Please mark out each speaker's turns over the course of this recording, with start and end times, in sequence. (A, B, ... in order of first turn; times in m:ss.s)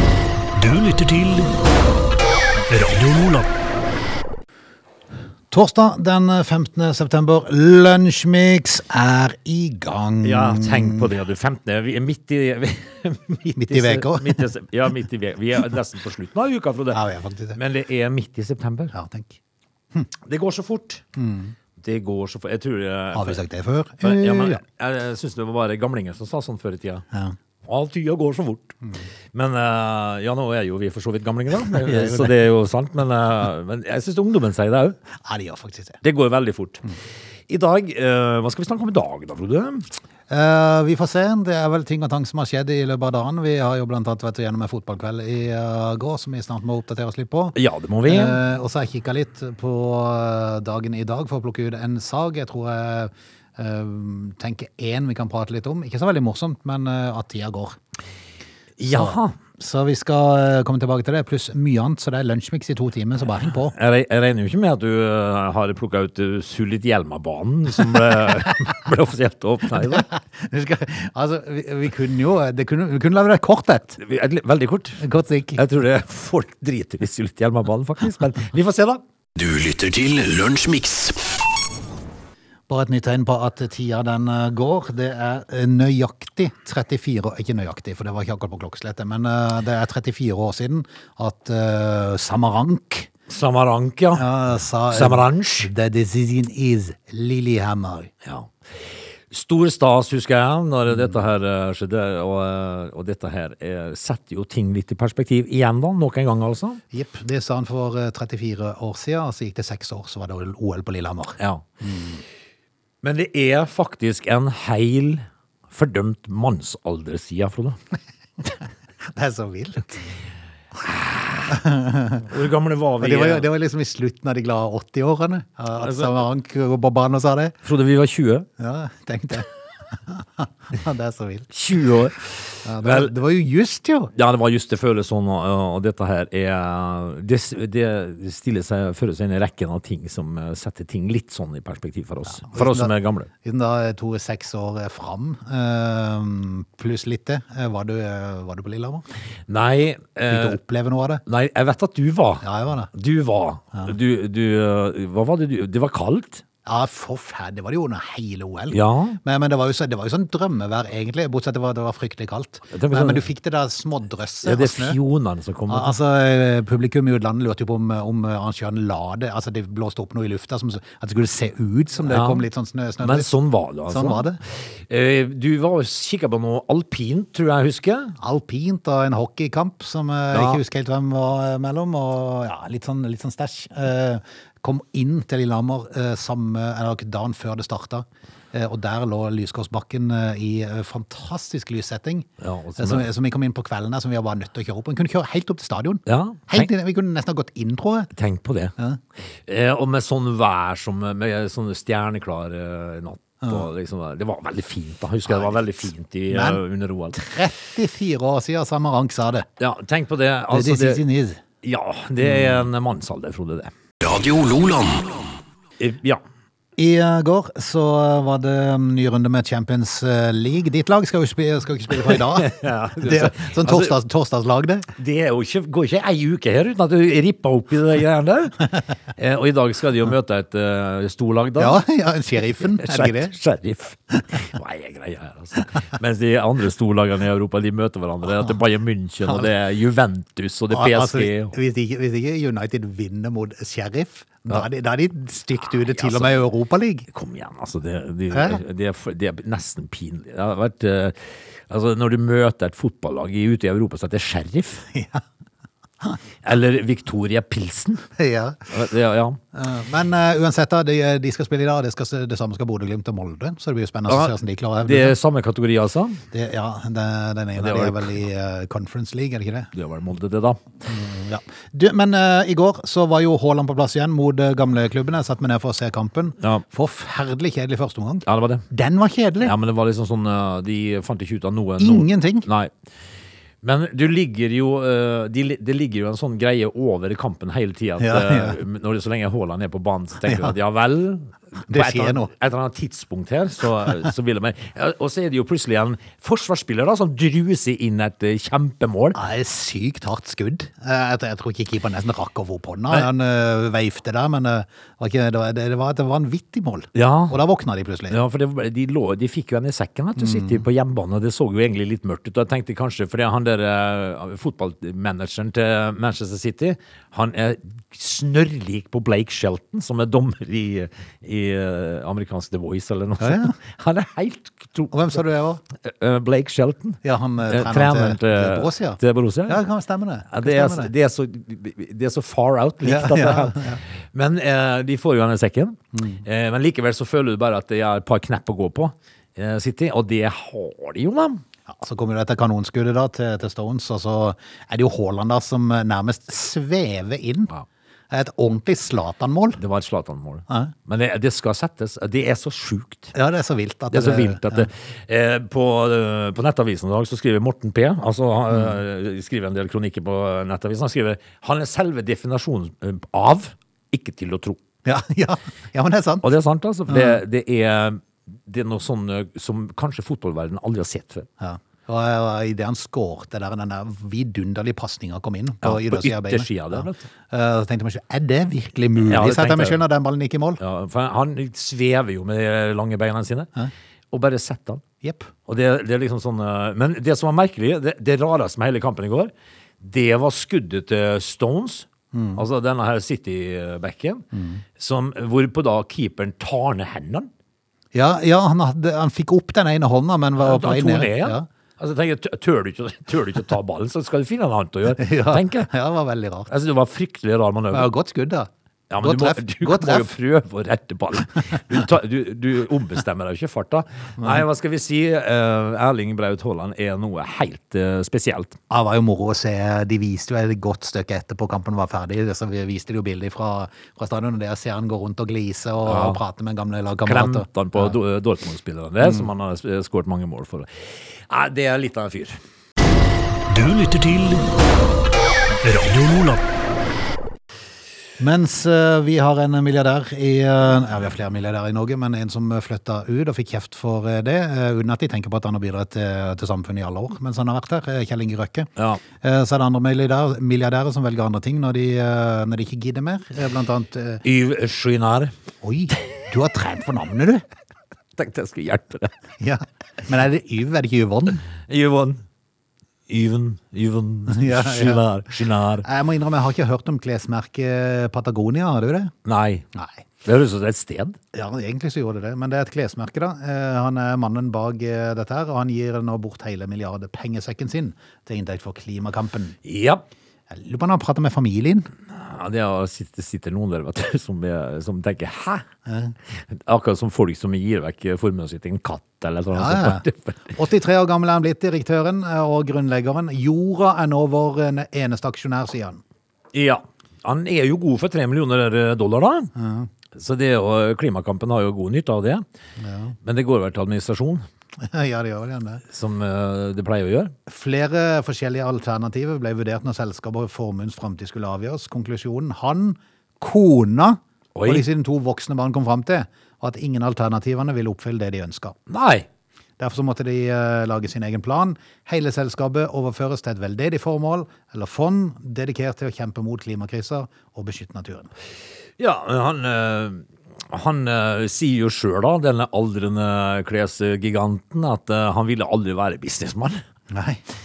0:00.6-0:01.5 A
0:02.7-0:03.5 A
0:05.5-0:11.1 B
0:10.2-0:17.0 C
0:13.5-0:14.4 B
0:16.9-0:17.6 B
0:17.5-0:18.9 C
0:18.9-0:19.4 B
0:20.2-0:21.0 C
0:21.1-0:21.6 B
0:21.8-0:23.4 C
0:23.1-0:24.6 B
0:24.0-0:27.0 C
0:27.6-0:28.8 C
0:29.3-0:35.0 C
0:31.7-0:32.4 B
0:35.2-0:36.0 B
0:36.0-0:36.8 C
0:37.5-0:39.9 C
0:40.3-0:57.8 B
0:47.5-0:48.4 C
0:58.8-0:59.4 C
0:58.9-1:03.7 B
1:03.7-1:10.1 C
1:09.8-1:14.0 B
1:14.0-1:15.0 C
1:15.0-1:15.6 B
1:15.5-1:19.0 C
1:19.4-1:21.3 A
1:22.7-1:33.1 B
1:33.3-1:34.2 C
1:34.1-1:38.1 B
1:34.9-1:35.7 C
1:38.2-1:46.8 C
1:46.9-1:52.2 B
1:51.4-1:51.6 C
1:53.0-1:57.8 C
1:59.1-2:00.0 B
2:00.8-2:01.6 C
2:01.5-2:02.3 B
2:02.2-2:03.5 C
2:03.0-2:07.6 B
2:05.8-2:06.1 C
2:07.6-2:08.5 C
2:08.6-2:11.5 B
2:11.5-2:13.1 C
2:12.6-2:14.1 B
2:14.1-2:23.3 C
2:22.4-2:29.0 B
2:29.5-2:30.6 C
2:30.3-2:31.2 B
2:31.2-2:36.4 C
2:32.4-2:32.9 B
2:36.6-2:45.0 B
2:38.7-2:39.2 C
2:42.7-2:43.2 C
2:44.4-2:46.0 C
2:45.7-2:53.3 B
2:52.1-2:52.4 C
2:53.0-2:58.2 C
2:53.9-2:54.4 B
2:58.2-3:18.1 B
3:00.3-3:00.6 C
3:12.4-3:13.1 C
3:16.1-3:16.7 C
3:18.1-3:18.7 C
3:19.4-3:27.2 C
3:25.2-3:26.6 B
3:27.1-3:29.5 B
3:29.6-3:31.0 C
3:30.5-3:31.4 B
3:31.6-3:33.7 C
3:32.2-3:32.6 B
3:34.0-3:35.3 A
3:35.8-3:36.2 C
3:36.8-3:44.9 B
3:42.0-3:44.0 C
3:45.0-3:51.8 C
3:51.6-3:53.3 B
3:52.6-4:01.5 C
4:00.7-4:07.1 B
4:05.7-4:06.4 C
4:07.1-4:14.8 C
4:08.3-4:08.6 B
4:14.9-4:15.2 B
4:16.4-4:18.0 C
4:18.2-4:18.7 B
4:18.7-4:19.4 C
4:19.5-4:25.2 B
4:24.1-4:26.2 C
4:26.3-4:29.7 B
4:27.6-4:28.2 C
4:29.7-4:30.6 C
4:30.8-4:39.5 B
4:38.2-4:38.6 C
4:39.4-4:42.7 C
4:41.8-4:42.5 B
4:43.6-4:59.2 C
4:48.0-4:48.6 B
4:50.2-4:50.5 B
4:51.7-4:52.3 B
4:59.1-5:08.2 B
5:06.9-5:07.4 C
5:08.1-5:25.2 C
5:10.2-5:10.6 B
5:23.2-5:23.5 B
5:24.9-5:25.6 B
5:25.8-5:29.6 C
5:27.0-5:30.9 B
5:30.3-5:41.4 C
5:32.8-5:33.8 B
5:35.9-5:36.2 B
5:41.7-5:47.5 B
5:48.1-5:49.6 B
5:49.6-5:53.1 C
5:50.5-5:50.7 B
5:53.1-5:54.7 B
5:53.9-6:04.6 C
6:04.8-6:06.3 B
6:06.2-6:11.3 C
6:06.9-6:07.2 B
6:11.4-6:20.6 B
6:15.6-6:17.1 C
6:19.0-6:19.8 C
6:20.6-6:23.5 C
6:24.1-6:24.8 C
6:25.0-6:25.3 B
6:25.4-6:34.2 C
6:32.1-6:32.4 B
6:34.3-6:34.6 B
6:34.8-6:37.3 C
6:37.9-6:41.5 B
6:40.4-6:45.7 C
6:44.9-6:46.5 B
6:46.5-6:47.9 C
6:47.7-6:48.5 B
6:48.9-6:58.6 C
6:49.0-6:50.1 B
6:58.7-7:08.0 B
7:05.8-7:06.2 C
7:07.0-7:12.4 C
7:13.5-7:14.5 A
7:15.6-7:16.4 A
7:18.2-7:28.7 B
7:29.2-7:34.2 B
7:34.2-7:35.3 C
7:35.6-7:37.4 B
7:38.2-7:39.1 C
7:39.4-7:41.4 B
7:41.7-7:42.2 C
7:43.1-7:45.8 C
7:44.3-7:45.0 B
7:45.8-7:49.1 B
7:49.2-7:49.6 C
7:49.7-7:50.0 B
7:50.2-7:51.2 C
7:51.3-7:59.6 B
7:59.6-8:00.0 C
8:00.5-8:01.9 B
8:02.1-8:05.6 C
8:05.8-8:06.1 B
8:06.3-8:10.5 C
8:09.5-8:16.0 B
8:16.5-8:19.5 C
8:19.5-8:19.9 B
8:20.1-8:22.4 C
8:22.8-8:23.2 B
8:23.2-8:24.4 C
8:24.8-8:25.8 B
8:25.9-8:27.3 C
8:27.5-8:38.8 B
8:34.5-8:34.9 C
8:38.9-8:39.3 C
8:39.8-8:48.3 B
8:49.0-8:56.8 C
8:57.1-8:57.4 B